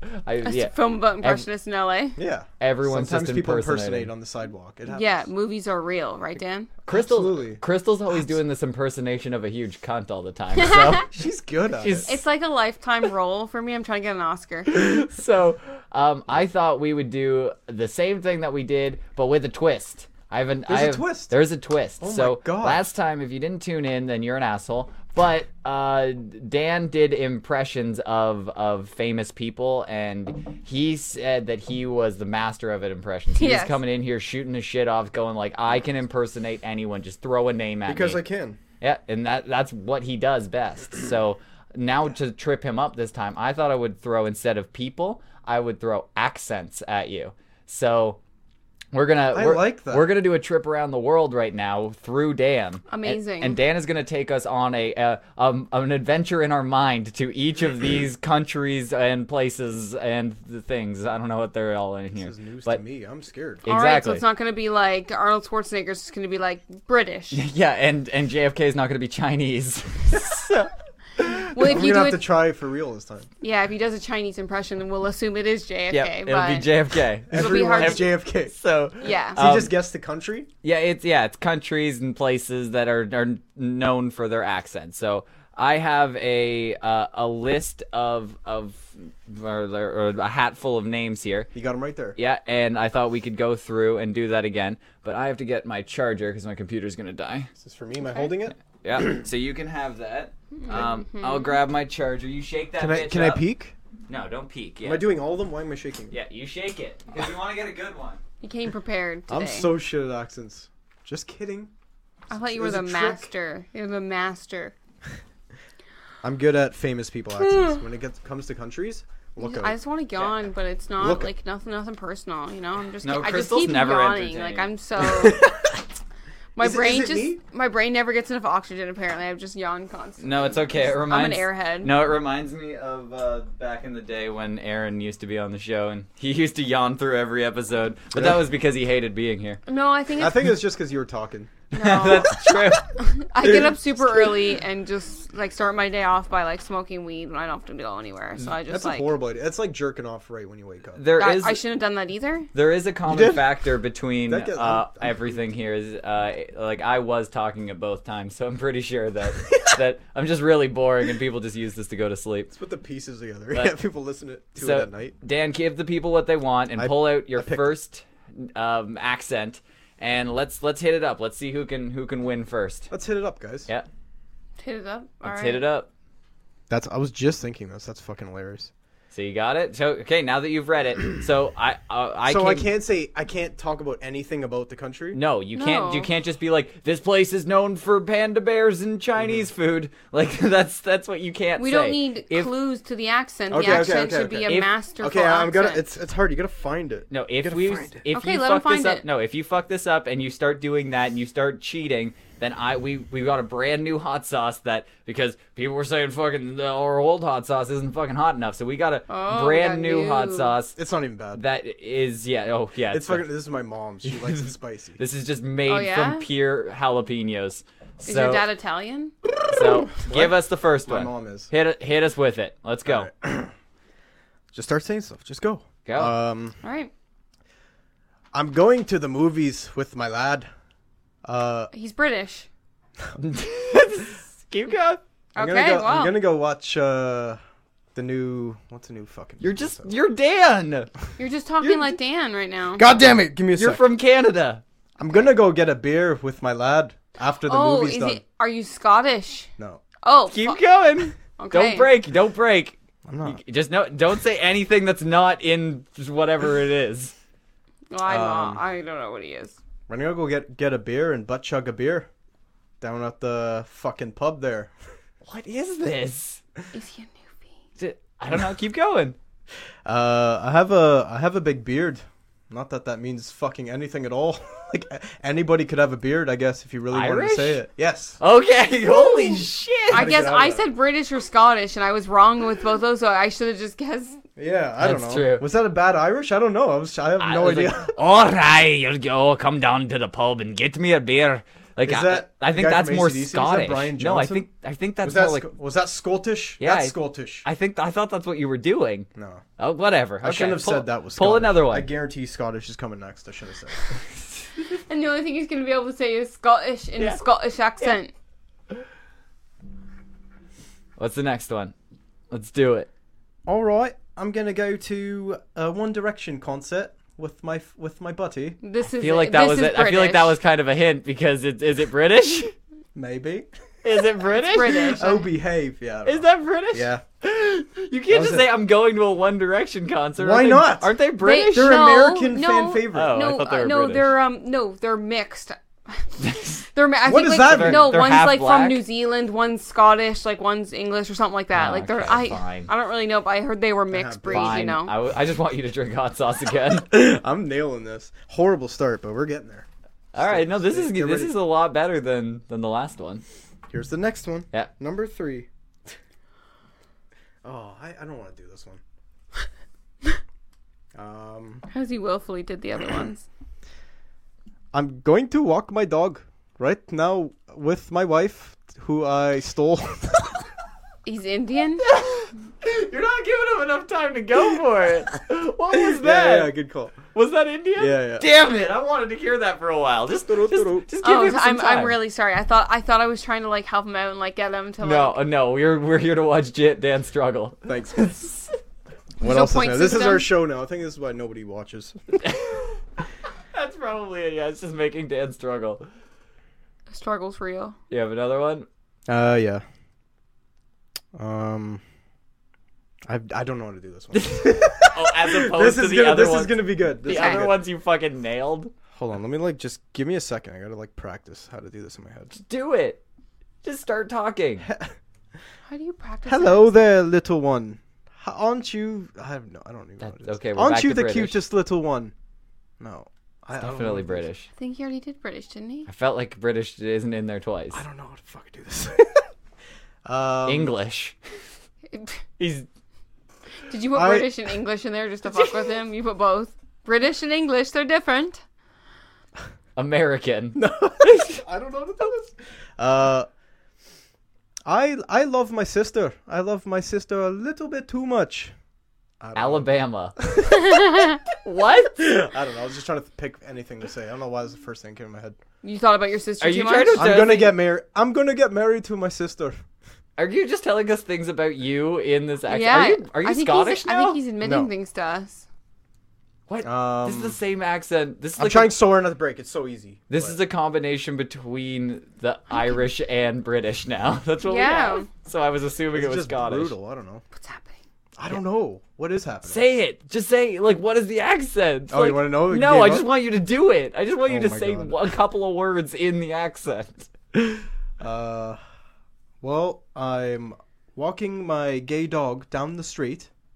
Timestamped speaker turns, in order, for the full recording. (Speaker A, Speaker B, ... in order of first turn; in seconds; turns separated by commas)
Speaker A: 0.2-1.4, Speaker B: 0.4-2.2, Speaker C: 2.2-5.3, Speaker A: 2.6-4.1, Speaker B: 4.9-6.7, Speaker A: 6.8-11.1, Speaker C: 6.9-7.6, Speaker B: 10.5-11.1, Speaker C: 11.1-12.1, Speaker A: 11.8-12.2, Speaker B: 12.1-14.7, Speaker A: 14.7-38.2, Speaker C: 20.7-21.4, Speaker C: 22.0-22.9, Speaker B: 33.3-33.8, Speaker C: 37.9-38.6, Speaker A: 38.8-48.2, Speaker A: 48.9-62.8, Speaker C: 49.3-50.1, Speaker B: 52.9-53.6, Speaker C: 62.2-63.6, Speaker A: 63.6-64.2, Speaker B: 63.7-67.4, Speaker A: 67.3-71.5, Speaker B: 71.5-72.2, Speaker C: 71.5-73.3, Speaker B: 73.4-76.7, Speaker A: 75.9-79.8, Speaker C: 77.3-78.5, Speaker B: 77.3-78.0, Speaker B: 79.0-79.4, Speaker C: 79.3-80.5, Speaker A: 80.6-91.5, Speaker C: 91.5-92.2, Speaker A: 92.2-97.5, Speaker C: 97.5-99.2, Speaker A: 98.6-103.4, Speaker B: 100.5-101.6, Speaker C: 102.8-103.7, Speaker A: 104.1-105.0, Speaker C: 104.8-106.1, Speaker A: 106.1-108.2, Speaker B: 108.4-109.7, Speaker C: 109.3-111.7, Speaker B: 112.3-114.7, Speaker C: 112.3-113.3, Speaker C: 116.2-119.8, Speaker B: 117.4-117.8, Speaker B: 119.4-125.5, Speaker C: 121.0-121.3, Speaker A: 123.0-124.7, Speaker C: 125.0-125.6, Speaker B: 126.5-131.9, Speaker C: 126.6-127.4, Speaker A: 130.2-139.6, Speaker C: 138.1-138.4, Speaker B: 139.7-140.5, Speaker C: 140.2-142.3, Speaker A: 141.7-142.8, Speaker B: 141.8-142.4, Speaker B: 142.9-149.1, Speaker C: 143.4-144.4, Speaker C: 148.7-151.0, Speaker A: 150.9-151.6, Speaker B: 151.2-152.5, Speaker A: 152.5-162.5, Speaker C: 153.1-153.4, Speaker C: 154.3-155.4, Speaker C: 162.5-165.1, Speaker A: 164.6-172.9, Speaker C: 166.8-167.7, Speaker C: 172.9-173.7, Speaker B: 174.6-175.6, Speaker A: 175.2-175.9, Speaker C: 176.7-178.7, Speaker A: 179.1-182.7, Speaker C: 182.2-185.2, Speaker A: 185.1-192.5, Speaker B: 185.5-186.1, Speaker C: 189.2-189.4, Speaker B: 191.6-195.8, Speaker C: 193.5-198.0, Speaker A: 193.6-193.9, Speaker A: 197.1-210.8, Speaker B: 198.1-199.0, Speaker B: 209.1-210.5, Speaker C: 210.8-211.4, Speaker A: 211.3-213.2, Speaker C: 212.9-215.0, Speaker A: 214.1-218.4, Speaker B: 215.7-216.2, Speaker B: 218.0-219.1, Speaker A: 219.5-223.1, Speaker C: 219.6-221.5, Speaker C: 222.8-223.5, Speaker C: 224.5-226.6, Speaker A: 225.8-226.2, Speaker B: 226.6-226.9, Speaker C: 228.3-230.5, Speaker C: 231.2-231.7, Speaker B: 231.7-232.5, Speaker A: 233.2-235.0, Speaker B: 235.3-236.2, Speaker C: 235.4-237.4, Speaker C: 237.9-239.9, Speaker A: 239.4-240.9, Speaker B: 241.2-242.8, Speaker A: 241.6-241.9, Speaker C: 242.8-243.8, Speaker A: 243.6-244.6, Speaker C: 245.0-248.2, Speaker B: 247.5-249.5, Speaker B: 250.0-250.6, Speaker A: 250.3-257.1, Speaker B: 251.2-251.9, Speaker C: 253.1-253.4, Speaker B: 257.9-259.6, Speaker C: 258.1-258.6, Speaker C: 259.9-262.1, Speaker C: 262.8-264.7, Speaker A: 265.2-266.4, Speaker B: 266.7-267.5, Speaker A: 267.8-269.1, Speaker C: 269.9-278.2, Speaker A: 276.9-277.6, Speaker A: 278.2-280.1, Speaker B: 278.8-284.2, Speaker C: 279.9-280.6, Speaker C: 284.4-287.9, Speaker A: 284.8-285.4, Speaker A: 287.2-295.5, Speaker C: 291.8-294.4, Speaker C: 295.0-297.4, Speaker A: 296.6-299.1, Speaker C: 299.1-299.4, Speaker A: 299.6-301.9, Speaker C: 300.2-304.0, Speaker B: 304.9-308.1, Speaker A: 311.0-311.7, Speaker A: 312.3-312.9, Speaker C: 313.4-318.6, Speaker B: 318.6-320.4, Speaker A: 319.0-322.5, Speaker C: 322.9-323.5, Speaker A: 323.8-325.0, Speaker B: 324.3-325.3, Speaker C: 325.0-327.0, Speaker A: 326.0-331.7, Speaker C: 328.1-328.5, Speaker C: 330.2-330.9, Speaker B: 331.2-344.9, Speaker C: 331.4-333.2, Speaker A: 332.9-334.1, Speaker A: 336.2-336.6, Speaker C: 337.1-337.9, Speaker A: 337.4-338.8, Speaker A: 341.5-342.7, Speaker C: 343.9-344.6, Speaker A: 344.3-346.9, Speaker C: 346.9-351.3, Speaker A: 350.1-353.2, Speaker C: 353.7-355.9, Speaker C: 357.4-358.8, Speaker C: 360.9-361.6, Speaker B: 361.7-363.2, Speaker C: 364.7-370.4, Speaker B: 371.1-371.8, Speaker A: 371.8-376.5, Speaker C: 375.7-377.0, Speaker A: 377.1-382.0, Speaker C: 377.8-378.2, Speaker C: 380.3-380.9, Speaker B: 381.0-385.1, Speaker A: 384.8-388.6, Speaker C: 387.6-388.1, Speaker B: 389.2-390.3, Speaker C: 389.2-392.2, Speaker A: 392.2-392.8, Speaker A: 393.5-395.8, Speaker B: 396.9-397.8, Speaker A: 397.9-398.7, Speaker C: 399.1-399.6, Speaker C: 401.1-401.8, Speaker C: 403.1-407.6, Speaker A: 404.1-408.7, Speaker B: 407.1-407.4, Speaker C: 408.9-412.3, Speaker A: 412.3-413.0, Speaker A: 413.6-414.7, Speaker C: 414.6-414.9, Speaker B: 415.7-416.6, Speaker C: 416.2-422.1, Speaker A: 420.0-421.4, Speaker C: 422.8-424.3, Speaker A: 423.6-424.5, Speaker B: 424.5-425.9, Speaker A: 425.9-427.8, Speaker C: 427.7-429.2, Speaker C: 430.0-430.7, Speaker A: 430.4-431.2, Speaker B: 431.9-432.2, Speaker A: 432.4-432.6, Speaker B: 433.7-438.4, Speaker C: 433.9-434.3, Speaker A: 435.3-435.7, Speaker A: 439.8-441.4, Speaker C: 440.5-443.3, Speaker C: 444.6-448.5, Speaker C: 449.2-451.1, Speaker A: 449.4-450.2, Speaker B: 450.5-451.2, Speaker A: 451.4-452.1, Speaker C: 452.0-455.4, Speaker B: 455.6-457.1, Speaker A: 456.4-457.6, Speaker C: 456.9-459.6, Speaker A: 460.2-464.2, Speaker B: 462.5-465.4, Speaker C: 464.4-464.7, Speaker A: 466.5-468.7, Speaker C: 466.6-467.4, Speaker C: 468.4-470.4, Speaker A: 470.1-476.7, Speaker B: 472.5-472.8, Speaker B: 474.4-475.1, Speaker C: 475.9-477.2, Speaker B: 477.3-477.8, Speaker C: 478.2-479.7, Speaker A: 479.4-487.6, Speaker C: 481.9-483.1, Speaker C: 484.3-484.9, Speaker C: 488.0-488.6, Speaker C: 489.4-493.3